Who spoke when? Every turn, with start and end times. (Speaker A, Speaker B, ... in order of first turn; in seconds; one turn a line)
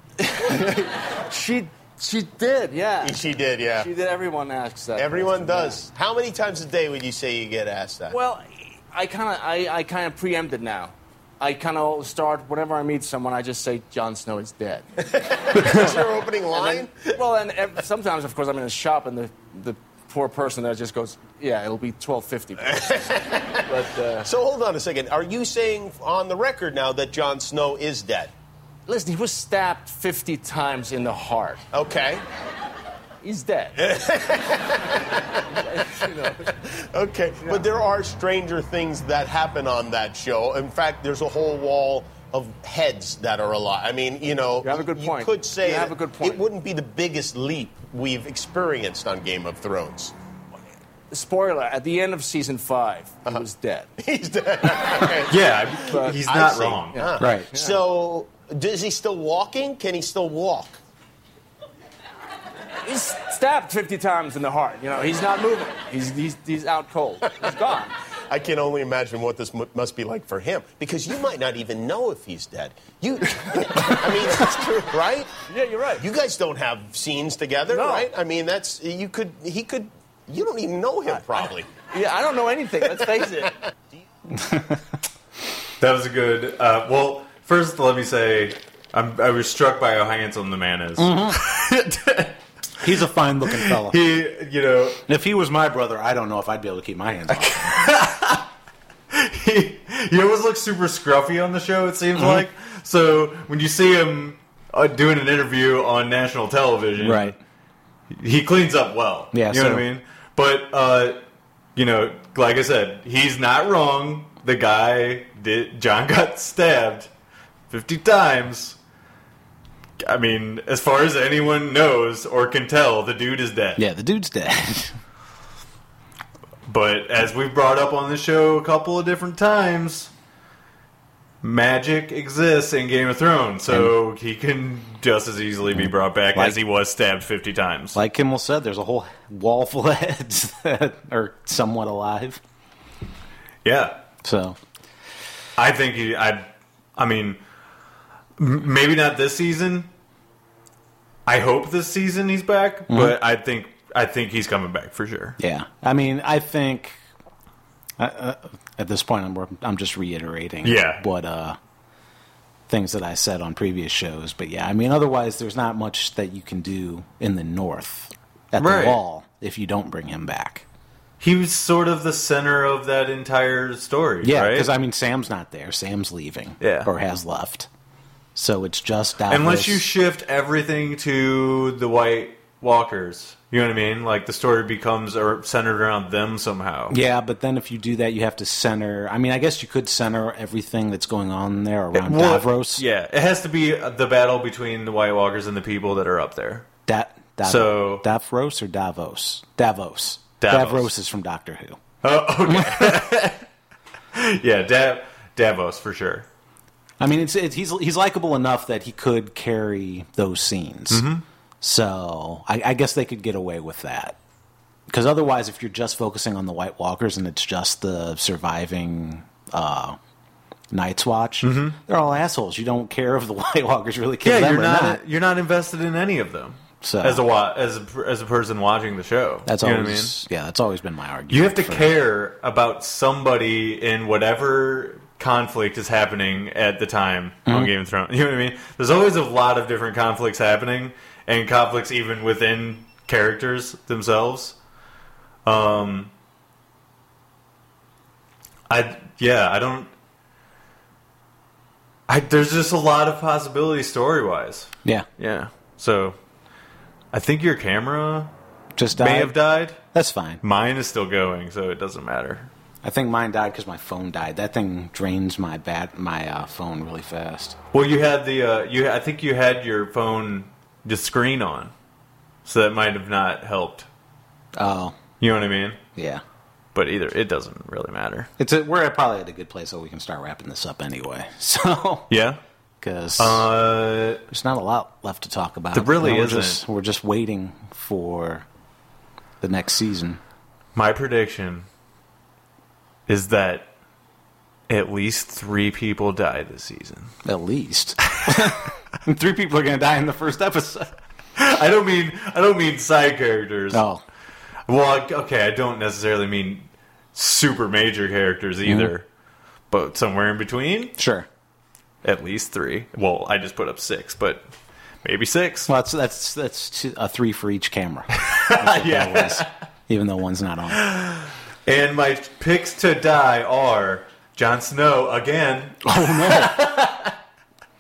Speaker A: 0.2-5.8
Speaker B: 3.0-3.9
Speaker B: 5.0-8.2
Speaker A: 8.1-14.9
Speaker B: 15.3-17.2
Speaker A: 15.5-24.3
Speaker C: 15.6-15.9
Speaker B: 22.7-23.6
Speaker B: 24.2-28.3
Speaker A: 28.9-31.6
Speaker B: 31.7-32.2
Speaker A: 33.2-33.8
Speaker B: 33.8-35.0
Speaker A: 35.5-36.5
Speaker B: 36.5-50.1
Speaker A: 44.6-46.5
Speaker A: 51.1-53.9
Speaker B: 54.0-55.4
Speaker A: 54.8-55.2
Speaker C: 55.3-57.0
Speaker A: 55.9-56.2
Speaker B: 56.1-60.8
Speaker A: 56.9-57.8
Speaker D: 57.2-57.5
Speaker A: 62.8-67.9
Speaker B: 68.3-75.4
Speaker A: 75.5-76.1
Speaker B: 75.9-81.7
Speaker A: 77.7-78.1
Speaker A: 81.7-83.5
Speaker D: 84.3-84.8
Speaker C: 85.8-92.4
Speaker D: 91.0-91.4
Speaker D: 92.8-94.0
Speaker C: 93.5-95.0
Speaker D: 95.1-97.8
Speaker C: 97.3-98.5
Speaker C: 99.1-107.3
Speaker D: 102.2-102.5
Speaker D: 107.0-107.4
Speaker C: 108.1-111.2
Speaker D: 109.3-109.9
Speaker C: 111.8-117.1
Speaker C: 117.7-118.8
Speaker C: 120.0-123.8
Speaker D: 123.8-125.0
Speaker C: 126.7-130.1
Speaker C: 131.4-138.0
Speaker D: 137.9-142.4
Speaker C: 143.6-144.0
Speaker D: 144.2-144.6
Speaker C: 145.6-147.4
Speaker C: 148.4-149.9
Speaker C: 151.3-155.4
Speaker D: 152.9-153.2
Speaker D: 155.4-157.0
Speaker D: 158.0-161.6
Speaker C: 160.6-161.0
Speaker D: 162.7-170.7
Speaker C: 168.6-169.0
Speaker C: 171.2-174.7
Speaker D: 174.2-177.7
Speaker C: 176.6-176.9
Speaker D: 178.3-179.8
Speaker C: 179.3-187.0
Speaker D: 186.9-192.8
Speaker C: 191.9-196.7
Speaker D: 196.9-201.8
Speaker C: 197.4-198.1
Speaker C: 200.4-200.9
Speaker C: 202.0-203.5
Speaker D: 202.5-203.0
Speaker C: 204.1-206.3
Speaker D: 207.0-211.1
Speaker C: 210.9-211.2
Speaker D: 211.6-214.2
Speaker D: 214.9-220.0
Speaker D: 220.7-225.0
Speaker C: 221.4-221.8
Speaker C: 224.2-230.2
Speaker D: 226.8-227.2
Speaker D: 229.5-231.9
Speaker C: 231.3-244.6
Speaker D: 237.5-237.7
Speaker C: 245.4-246.1
Speaker C: 248.7-249.9
Speaker C: 252.1-256.2
Speaker C: 257.1-258.3
Speaker D: 258.8-260.4
Speaker C: 258.9-259.8
Speaker C: 260.4-262.5
Speaker D: 262.8-267.6
Speaker C: 267.7-271.7
Speaker C: 272.4-273.9
Speaker D: 274.6-275.0
Speaker C: 275.2-275.8
Speaker D: 276.0-276.2
Speaker C: 276.7-278.3
Speaker D: 278.4-282.1
Speaker C: 282.1-282.4
Speaker D: 282.8-283.5
Speaker C: 283.2-284.2
Speaker D: 284.3-288.5
Speaker C: 285.7-286.6
Speaker D: 289.4-290.2
Speaker C: 290.8-291.7
Speaker C: 293.1-293.7
Speaker C: 294.7-297.1
Speaker D: 297.2-300.9
Speaker C: 301.4-303.8
Speaker D: 303.7-304.0
Speaker C: 304.7-309.1
Speaker D: 308.6-308.9
Speaker C: 309.7-310.9
Speaker D: 311.0-311.3
Speaker C: 312.0-314.5
Speaker C: 315.0-315.7
Speaker D: 315.7-320.9
Speaker C: 318.2-319.5
Speaker C: 320.7-327.2
Speaker D: 325.8-326.6